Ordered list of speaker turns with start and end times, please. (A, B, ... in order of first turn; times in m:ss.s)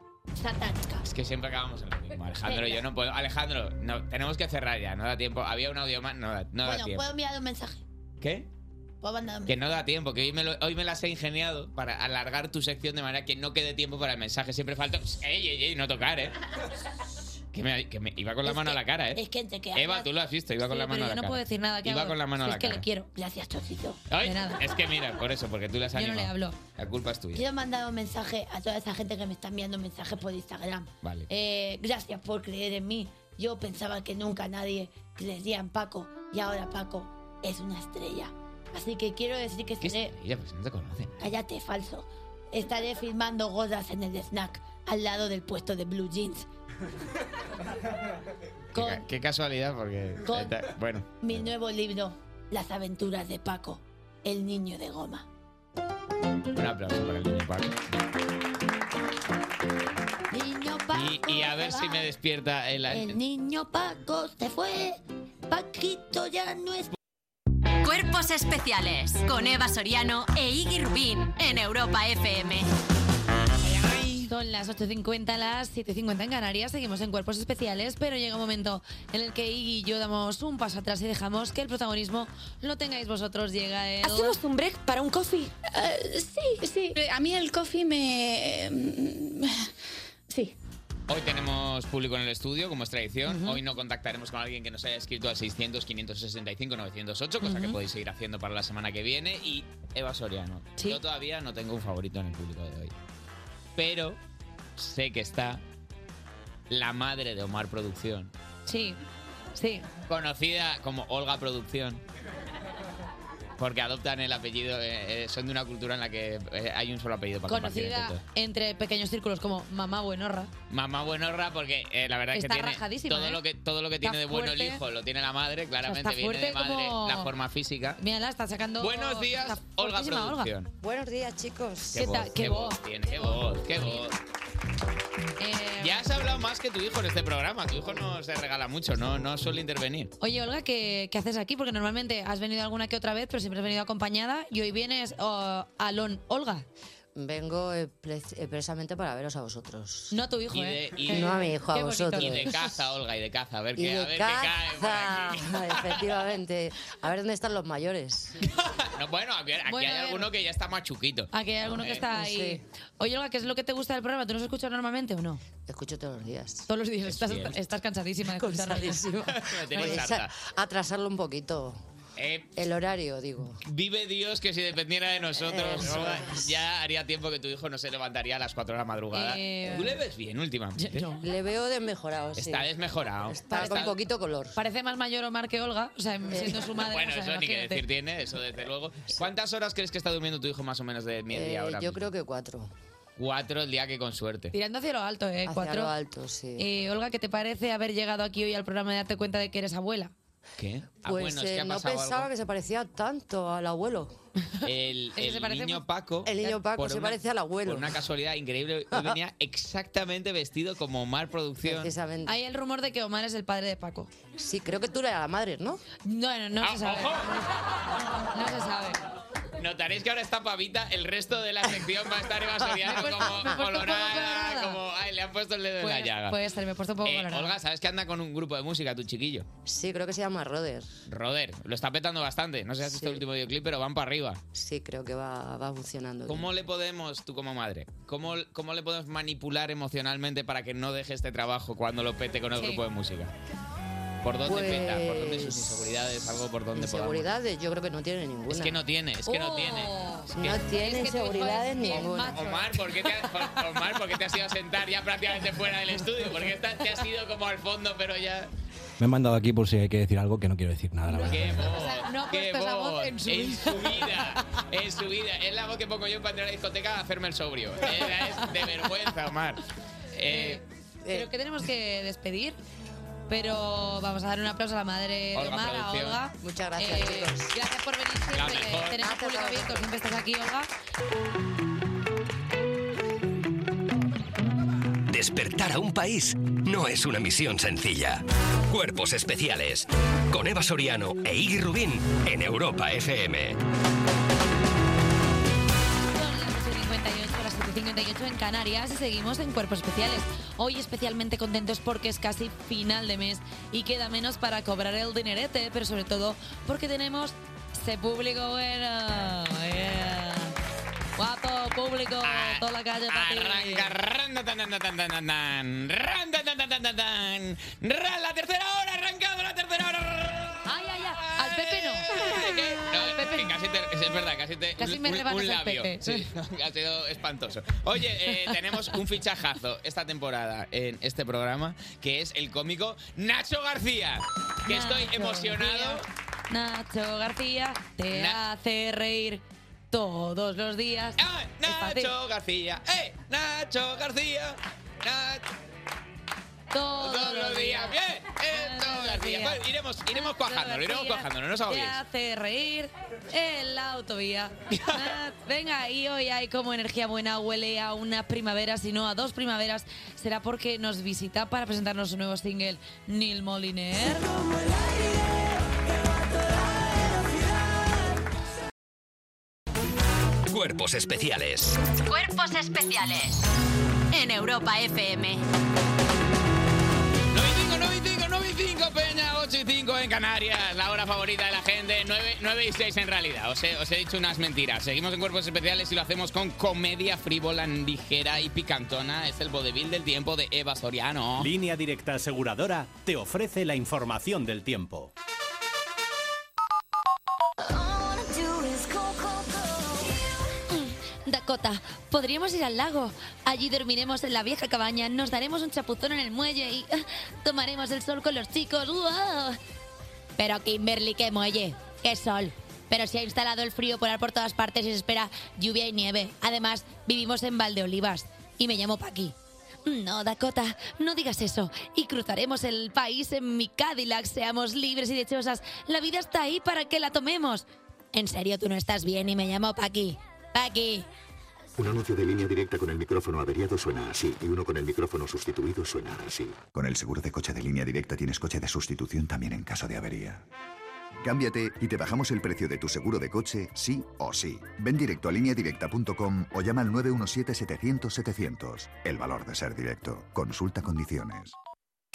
0:00.3-0:01.1 A
0:01.0-0:07.1 B
0:02.4-0:02.8 A
0:06.6-0:07.8 A
0:08.2-0:08.5 B
0:09.0-0:09.6 A
0:09.5-0:16.3 B
0:17.5-0:19.2 B
0:18.4-0:20.1 A
0:19.7-0:22.8 B
0:20.6-0:23.1 C
0:23.1-0:24.0 A
0:24.1-0:27.4 B
0:24.2-0:24.6 C
0:25.9-0:26.6 C
0:27.3-0:40.1 A
0:31.0-0:31.3 B
0:39.8-0:41.3 B
0:41.2-0:46.5 A
0:48.7-0:49.0 A
0:48.7-0:51.4 B
0:50.2-0:50.6 A
0:51.2-0:55.2 A
0:56.5-0:57.8 B
1:00.3-1:02.1 A
1:00.9-1:03.2 B
1:02.9-1:06.9 A
1:07.8-1:12.7 D
1:14.2-1:24.4 C
1:27.5-1:28.5 E
1:31.1-1:42.9 B
1:33.2-1:33.6 C
1:37.4-1:37.8 C
1:43.8-1:44.2 B
1:44.8-1:45.6 B
1:46.7-1:48.3 B
1:48.7-1:49.0 C
1:49.6-1:49.8 C
1:50.1-1:52.0 B
1:53.6-1:58.2 B
1:57.5-2:00.5 C
2:00.7-2:08.0 B
2:02.3-2:03.4 C
2:04.0-2:04.8 C
2:05.8-2:07.3 C
2:08.0-2:10.5 C
2:08.8-2:10.7 B
2:10.8-2:12.1 F
2:11.9-2:14.1 B
2:11.9-2:13.4 C
2:15.4-2:16.0 C
2:15.8-2:20.1 B
2:20.2-2:26.6 C
2:27.2-2:30.1 F
2:30.1-2:32.5 C
2:30.5-2:31.6 B
2:31.1-2:32.6 F
2:32.1-2:36.0 B
2:33.8-2:38.4 F
2:38.6-2:42.1 B
2:39.7-2:40.3 C
2:41.3-2:45.4 C
2:42.1-2:42.6 F
2:45.6-2:46.6 F
2:46.7-2:49.0 C
2:47.1-2:47.6 B
2:48.3-2:51.8 F
2:49.2-2:50.3 B
2:52.2-2:52.5 B
2:52.6-2:53.6 F
2:53.6-3:01.1 B
2:55.3-2:56.5 F
2:59.1-2:59.9 C
3:00.8-3:01.2 C
3:01.2-3:02.7 F
3:02.4-3:03.9 B
3:03.2-3:04.6 F
3:03.5-3:03.8 C
3:04.5-3:07.8 C
3:06.3-3:06.6 F
3:06.6-3:12.1 B
3:11.3-3:12.7 F
3:13.2-3:14.5 B
3:14.5-3:15.9 C
3:15.4-3:16.6 F
3:16.6-3:20.1 C
3:20.6-3:22.3 B
3:21.0-3:24.1 F
3:24.6-3:31.9 B
3:25.2-3:25.8 C
3:26.2-3:28.0 F
3:28.9-3:29.2 F
3:31.6-3:32.3 F
3:32.2-3:34.1 C
3:34.4-3:35.8 F
3:36.0-3:37.4 C
3:36.6-3:37.4 B
3:38.3-3:39.0 C
3:39.6-3:46.4 B
3:42.8-3:44.8 C
3:43.2-3:43.5 F
3:45.8-3:47.5 C
3:47.0-3:49.5 B
3:49.6-3:50.9 F
3:51.1-3:54.4 B
3:52.8-3:53.2 F
3:54.5-3:56.5 F
3:56.2-4:03.3 B
4:04.2-4:07.3 B
4:04.4-4:05.8 F
4:06.7-4:08.8 F
4:08.5-4:10.7 B
4:09.2-4:12.7 C
4:10.3-4:12.4 F
4:11.9-4:18.5 B
4:19.0-4:21.6 G
4:21.1-4:24.3 C
4:21.2-4:29.6 B
4:30.1-4:30.6 B
4:30.3-4:32.6 C
4:33.3-4:40.7 C
4:35.3-4:36.2 B
4:36.4-4:37.5 F
4:38.3-4:39.2 B
4:39.0-4:39.9 F
4:45.1-4:53.6 H
4:56.1-5:10.6 C
5:11.2-5:13.9 C
5:12.2-5:36.0 B
5:20.6-5:22.1 C
5:22.9-5:23.5 C
5:24.8-5:26.2 C
5:34.7-5:42.1 C
5:38.1-5:38.4 B
5:41.2-5:45.5 B
5:46.7-6:04.3 C
5:47.0-5:52.0 B
6:10.5-6:11.8 H
6:12.0-6:13.4 D
6:14.1-6:15.4 D
6:17.3-6:31.5 B
6:31.4-6:35.1 I
6:37.7-6:40.1 E
6:40.7-6:49.6 C
6:50.4-6:57.1 A
6:51.6-6:52.1 C
6:52.9-6:58.7 C
6:58.6-6:59.3 A
6:59.9-7:07.6 C
7:08.1-7:11.0 A
7:11.8-7:16.6 J
7:16.7-7:20.4 K
7:21.2-7:31.5 K